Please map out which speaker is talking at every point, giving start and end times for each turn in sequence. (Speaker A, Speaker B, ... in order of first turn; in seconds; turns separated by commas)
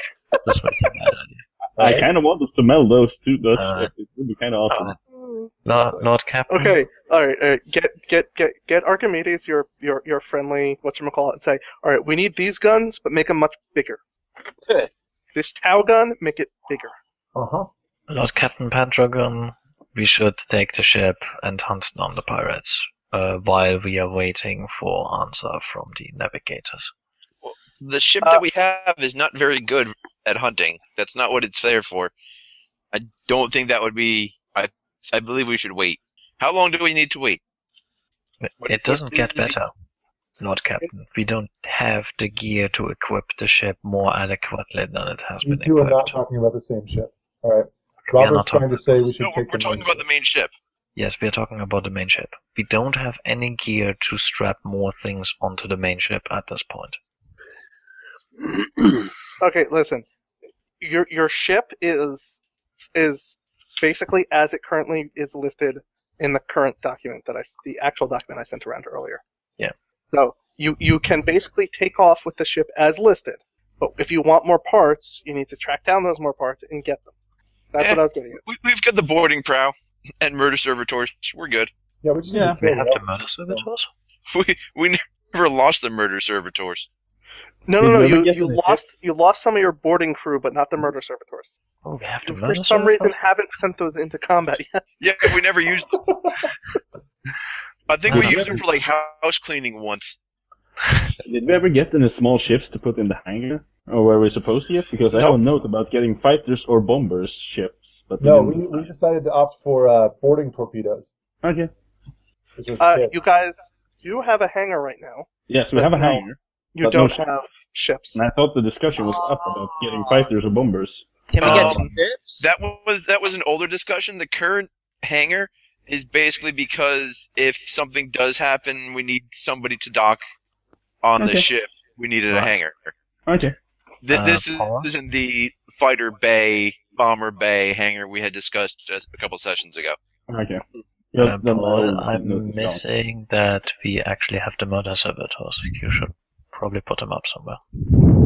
Speaker A: 0.4-1.4, Speaker B: 1.8-4.9, Speaker C: 1.8-2.1, Speaker A: 3.5-3.9, Speaker A: 4.7-5.0, Speaker D: 5.1-14.0, Speaker A: 5.6-6.8, Speaker D: 15.3-16.9, Speaker C: 17.3-17.7, Speaker A: 18.1-26.9, Speaker E: 27.4-32.1, Speaker E: 32.9-37.4, Speaker A: 38.4-39.7, Speaker E: 38.6-39.4, Speaker A: 40.4-46.2, Speaker C: 45.4-50.0, Speaker A: 48.0-49.0, Speaker E: 49.1-50.5, Speaker A: 51.0-57.0, Speaker D: 59.4-60.0, Speaker D: 60.8-62.4, Speaker D: 62.9-69.2, Speaker D: 70.1-77.1, Speaker D: 77.7-78.4, Speaker E: 77.8-81.7, Speaker C: 82.0-83.7, Speaker B: 82.3-82.6, Speaker A: 82.6-83.9, Speaker E: 84.3-86.9, Speaker D: 87.7-91.6, Speaker B: 87.8-88.8, Speaker A: 91.8-93.2, Speaker D: 92.2-95.4, Speaker E: 95.0-96.0, Speaker E: 97.9-100.2, Speaker A: 98.1-98.6, Speaker B: 98.1-98.6, Speaker B: 101.2-108.8, Speaker C: 108.2-111.1, Speaker B: 111.4-111.7, Speaker C: 112.6-113.1, Speaker D: 112.8-118.2, Speaker B: 115.5-117.3, Speaker B: 118.1-121.9, Speaker F: 119.0-120.3, Speaker F: 121.3-122.5, Speaker E: 121.4-121.8, Speaker E: 122.4-130.2, Speaker E: 131.0-132.9, Speaker B: 131.2-131.5, Speaker B: 133.2-133.6, Speaker E: 134.0-140.0, Speaker A: 134.1-134.9, Speaker B: 140.3-142.8, Speaker A: 141.2-147.6